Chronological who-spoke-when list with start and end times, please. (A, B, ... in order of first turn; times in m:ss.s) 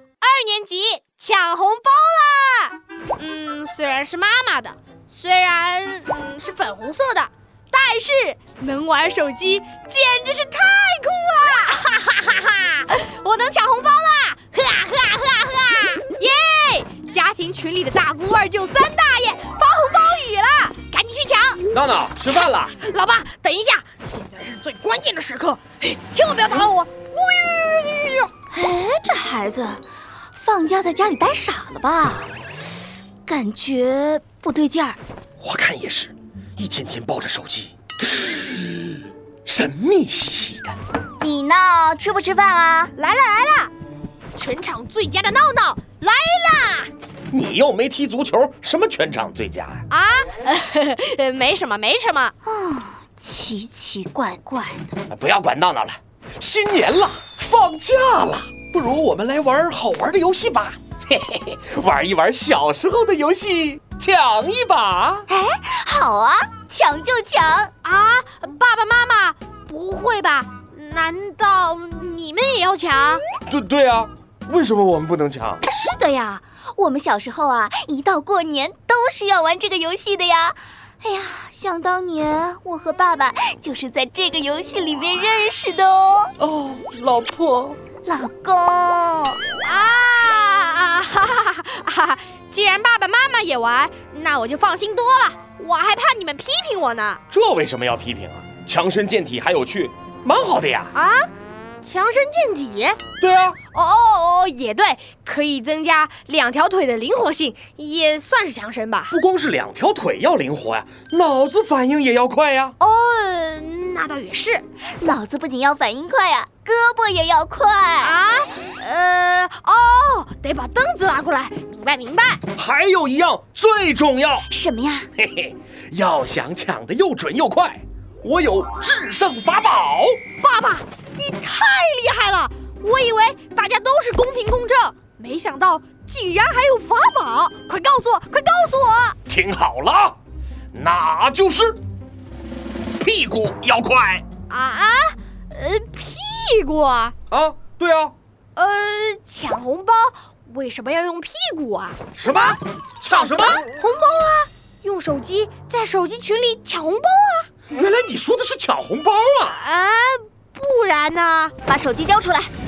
0:00.2-0:21.7 A
0:21.7-0:22.8 B
0:22.3-0:28.3 A
0:28.5-0:32.3 C
0:33.3-0:35.0 C
0:35.4-0:40.8 B
0:41.2-0:42.9 C
0:43.0-0:43.7 A
0:44.4-0:46.9 A
0:47.3-0:49.8 B
0:49.9-0:52.3 A
0:52.4-0:54.9 C
0:55.1-1:05.3 B
1:05.3-1:07.7 C
1:07.8-1:13.2 A
1:13.5-1:15.6 B
1:15.6-1:26.3 C
1:26.4-1:27.8 B
1:28.0-1:29.4 C
1:29.6-1:37.2 A
1:37.3-1:40.9 B
1:40.9-1:41.3 A
1:41.8-1:43.0 A
1:43.2-1:43.6 B
1:43.7-1:49.2 A
1:49.1-1:52.8 B
1:52.8-1:54.6 A
1:55.0-1:58.2 C
1:58.0-2:02.4 A
2:02.6-2:04.5 B
2:04.5-2:05.1 C
2:05.2-2:10.2 B
2:10.4-2:19.2 A
2:19.3-2:20.2 B
2:20.7-2:21.8 B
2:23.0-2:24.2 B
2:24.5-2:27.1 A
2:27.3-2:28.2 B
2:28.6-2:32.1 A
2:32.2-2:33.6 B
2:33.0-2:37.5 A
2:37.7-2:39.6 B
2:39.5-2:41.5 A
2:41.6-2:42.5 C